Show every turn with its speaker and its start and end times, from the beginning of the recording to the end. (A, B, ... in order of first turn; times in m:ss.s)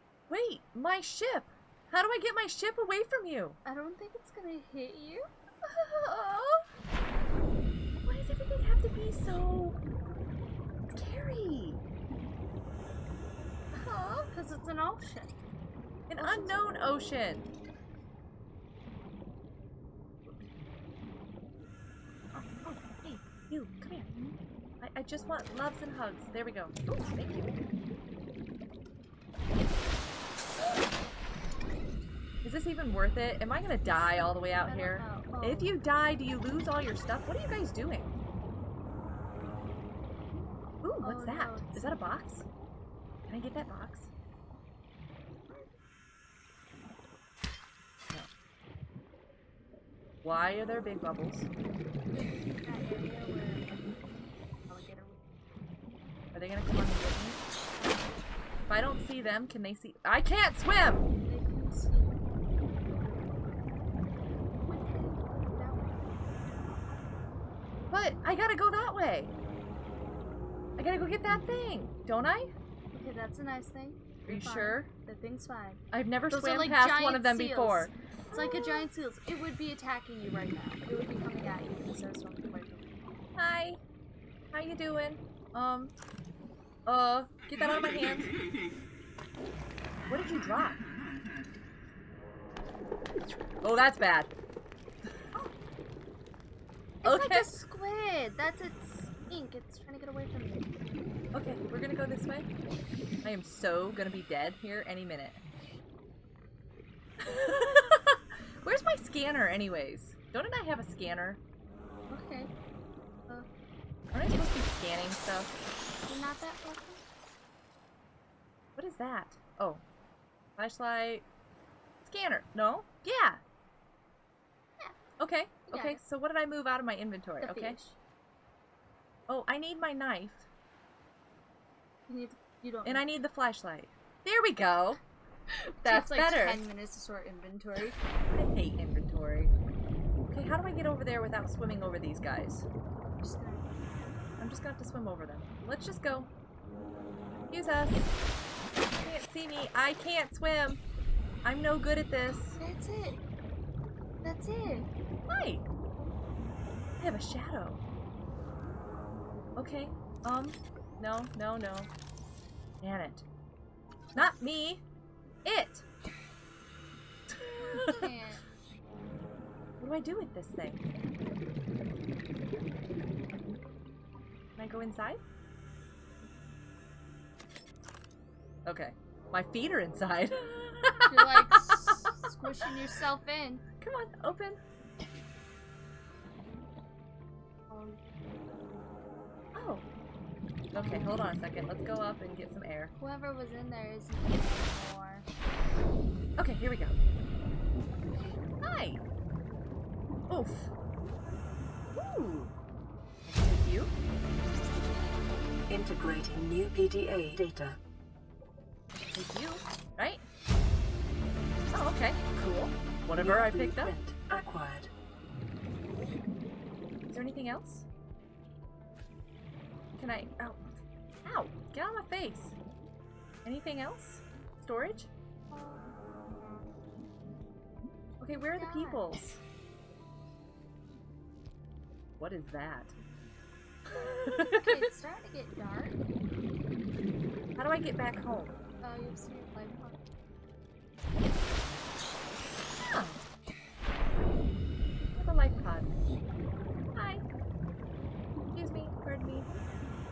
0:00.3-0:03.6 A
0:03.6-0:05.3 B
0:05.6-0:06.6 A
0:08.0-0:09.8 A
0:10.9-0:11.8 A
0:13.7-0:14.3 A
0:14.2-0:15.4 B
0:16.1-0:17.5 A
0:16.2-0:16.7 B
0:22.3-0:24.2 A
0:24.8-0:27.6 A
0:32.4-0:38.1 A
0:34.6-0:35.7 B
0:40.8-0:42.5 A
0:41.0-0:42.1 B
0:43.3-0:44.1 A
0:45.5-0:45.7 B
0:50.2-0:51.5 A
0:52.1-0:54.1 B
0:54.7-0:55.3 B
0:56.3-0:57.4 A
0:57.8-0:58.3 B
0:58.7-1:01.1 A
1:01.2-1:02.2 B
1:04.6-1:07.3 B
1:07.9-1:09.3 A
1:10.8-1:12.5 A
1:12.9-1:23.0 B
1:14.3-1:14.9 A
1:15.9-1:18.9 A
1:23.4-1:23.8 A
1:24.5-1:25.9 A
1:26.9-1:28.3 A
1:30.1-1:30.8 A
1:33.6-1:34.3 A
1:37.0-1:40.8 B
1:37.0-1:37.5 A
1:41.3-1:42.5 A
1:43.2-1:45.4 A
1:47.2-1:51.4 A
1:52.1-1:52.5 B
1:54.1-1:55.5 A
1:56.1-1:57.0 B
1:58.8-1:59.8 A
2:00.6-2:01.3 A
2:02.0-2:03.4 A
2:05.2-2:07.8 A
2:05.7-2:06.0 B
2:07.4-2:08.0 B
2:09.3-2:10.5 A
2:12.1-2:13.1 B
2:12.8-2:15.0 A
2:15.5-2:18.0 B
2:15.8-2:16.6 A
2:18.3-2:19.5 A
2:20.2-2:22.7 A
2:23.2-2:24.2 B
2:24.4-2:26.3 A
2:27.5-2:28.2 A
2:29.0-2:30.8 A
2:31.4-2:32.6 A
2:32.5-2:33.2 B
2:34.2-2:34.9 B
2:35.3-2:35.7 A
2:37.0-2:37.8 A
2:39.6-2:41.9 A
2:42.8-2:43.2 A
2:44.2-2:44.8 A
2:45.5-2:45.8 A
2:47.3-2:48.0 A
2:47.6-2:48.4 B
2:49.8-2:50.8 A
2:54.6-2:55.2 A
2:58.6-3:02.1 A
3:01.1-3:03.6 B
3:03.8-3:04.6 A
3:07.7-3:08.1 B
3:09.6-3:09.8 A
3:10.7-3:12.9 A
3:10.7-3:11.2 B
3:13.0-3:15.3 B
3:16.4-3:17.0 A
3:18.6-3:19.0 A
3:20.3-3:20.7 A
3:21.9-3:22.5 A
3:23.3-3:23.9 A
3:25.7-3:27.8 C
3:28.9-3:30.2 A
3:31.7-3:33.9 A
3:33.1-3:34.9 C
3:37.1-3:37.9 A
3:40.0-3:42.6 A
3:43.4-3:45.1 A
3:45.5-3:46.0 B
3:48.2-3:49.4 A
3:48.6-3:49.0 B
3:52.2-3:52.9 A
3:53.9-3:54.8 A
3:54.2-3:56.0 B
3:57.6-3:58.6 A
3:58.8-4:00.0 B
4:02.8-4:03.2 A
4:05.2-4:06.0 A
4:07.0-4:07.2 A
4:08.5-4:09.5 A